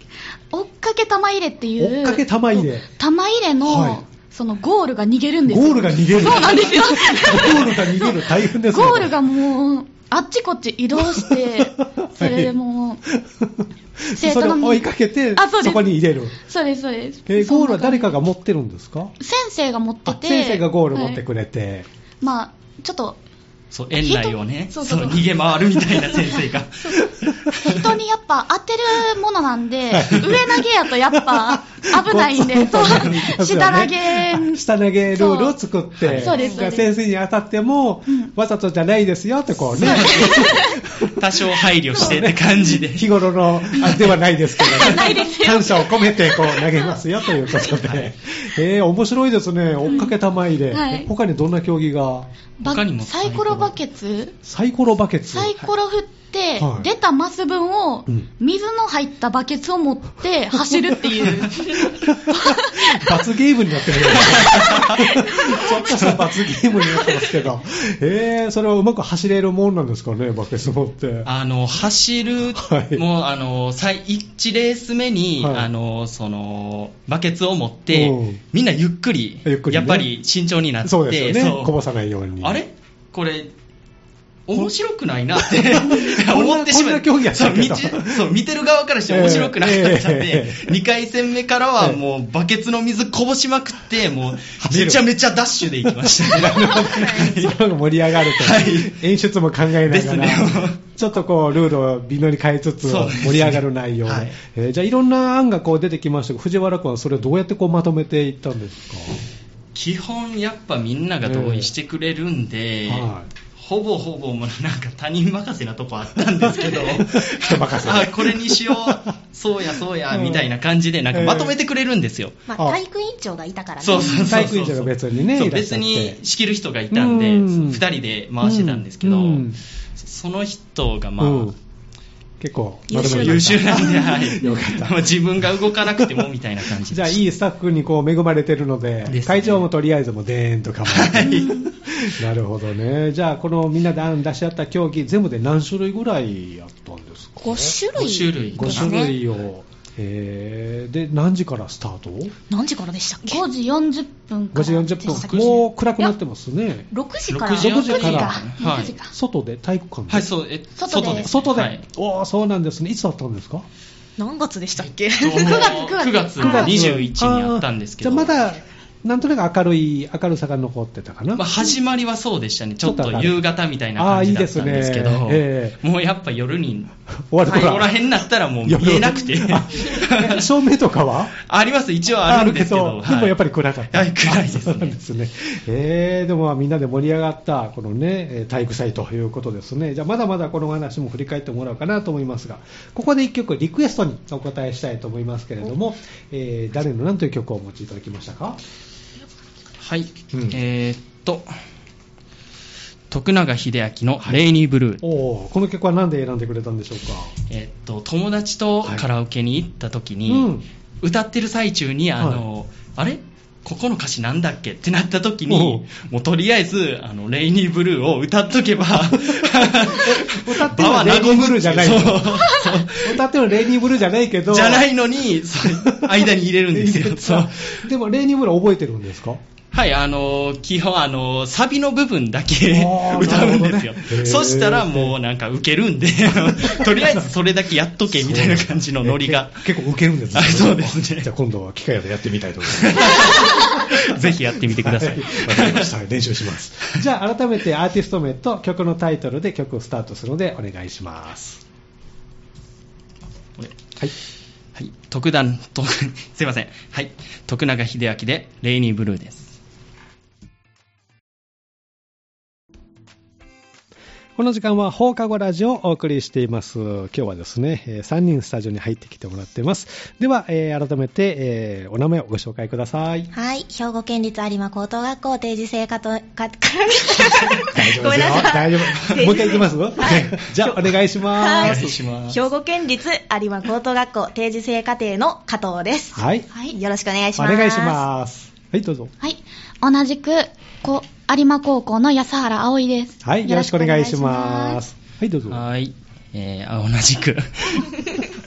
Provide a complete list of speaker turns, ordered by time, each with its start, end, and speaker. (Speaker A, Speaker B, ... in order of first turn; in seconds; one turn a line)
Speaker A: 0.5-13.0
Speaker B: 1.8-2.9
Speaker B: 3.6-4.0
Speaker B: 5.5-9.2
Speaker B: 11.0-12.5
Speaker B: 13.1-16.4
Speaker A: 14.2-18.2
Speaker B: 17.3-19.1
Speaker A: 19.2-21.2
Speaker B: 20.1-21.9
Speaker A: 22.2-23.2
Speaker C: 23.7-27.8
Speaker A: 23.9-25.2
Speaker A: 26.0-27.0
Speaker B: 27.0-27.6
Speaker A: 27.5-35.6
Speaker B: 29.9-52.3
Speaker C: 36.0-36.4
Speaker A: 36.1-36.9
Speaker D: 36.3-36.7
Speaker C: 39.7-43.1
Speaker A: 39.8-40.8
Speaker A: 43.8-46.6
Speaker C: 43.8-44.1
Speaker C: 47.7-48.1
Speaker A: 49.9-50.1
Speaker A: 50.7-51.1
Speaker A: 52.6-54.4
Speaker C: 52.6-53.7
Speaker B: 54.4-55.6
Speaker A: 55.3-63.1
Speaker B: 56.6-56.9
Speaker B: 60.7-71.3
Speaker C: 64.1-65.2
Speaker A: 65.3-65.7
Speaker C: 65.9-66.2
Speaker C: 71.2-81.8
Speaker B: 72.5-73.0
Speaker B: 75.4-75.7
Speaker B: 77.9-78.4
Speaker B: 79.5-80.1
Speaker B: 80.8-82.6
Speaker C: 82.4-83.5
Speaker C: 84.5-97.6
Speaker B: 85.4-88.3
Speaker B: 89.1-90.8
Speaker B: 94.5-95.0
Speaker B: 95.8-109.2
Speaker C: 98.2-99.0
Speaker C: 99.8-100.8
Speaker C: 102.8-104.4
Speaker C: 109.7-122.4
Speaker B: 111.2-111.7
Speaker B: 112.9-113.3
Speaker B: 116.4-119.1
Speaker B: 120.1-120.5
Speaker B: 121.1-121.5
Speaker D: 122.5-124.5
Speaker C: 123.8-131.6
Speaker B: 124.2-126.2
Speaker B: 126.9-127.8
Speaker B: 128.4-129.6
Speaker B: 131.2-131.6
Speaker B: 132.4-135.1
Speaker D: 132.9-134.2
Speaker C: 132.9-137.2
Speaker B: 135.8-136.3
Speaker B: 136.8-147.8
Speaker C: 139.1-139.7
Speaker C: 140.9-142.1
Speaker A: 141.4-141.6
Speaker D: 147.4-149.2
Speaker C: 147.9-149.1
Speaker B: 148.6-152.3
Speaker D: 152.5-153.4
Speaker A: 153.2-155.2
Speaker B: 154.5-156.9
Speaker D: 155.0-155.6
Speaker C: 155.1-155.6
Speaker D: 156.9-158.9
Speaker C: 157.3-158.9
Speaker B: 157.6-158.5
Speaker A: 158.6-159.1
Speaker B: 159.1-160.3
Speaker C: 160.1-161.8
Speaker A: 160.8-161.3
Speaker B: 160.9-163.7
Speaker D: 164.2-165.8
Speaker C: 165.1-168.4
Speaker A: 165.4-166.8
Speaker B: 166.4-171.4
Speaker C: 171.3-180.5
Speaker B: 172.8-173.4
Speaker B: 174.0-175.8
Speaker B: 177.3-178.0
Speaker B: 178.7-181.4
Speaker C: 181.4-183.4
Speaker B: 182.2-198.6
Speaker C: 183.9-185.0
Speaker C: 199.8-201.5
Speaker C: 203.1-205.0
Speaker B: 205.0-207.3
Speaker C: 207.5-223.2
Speaker B: 210.3-210.7
Speaker B: 212.2-212.4
Speaker B: 215.5-215.8
Speaker B: 219.1-224.9
Speaker C: 224.5-227.8
Speaker B: 225.6-229.4
Speaker C: 229.7-239.7
Speaker B: 232.7-235.2
Speaker B: 236.5-237.3
Speaker B: 238.1-251.6
Speaker C: 240.3-241.3
Speaker C: 242.7-245.9
Speaker C: 253.6-253.9
Speaker C: 254.8-259.6
Speaker B: 264.4-273.3
Speaker D: 273.3-288.0
Speaker B: 277.7-281.9
Speaker C: 279.0-279.4
Speaker C: 281.5-282.4
Speaker B: 286.1-286.5
Speaker B: 287.4-289.1
Speaker A: 289.2-294.8
Speaker B: 293.2-295.6
Speaker C: 295.5-298.1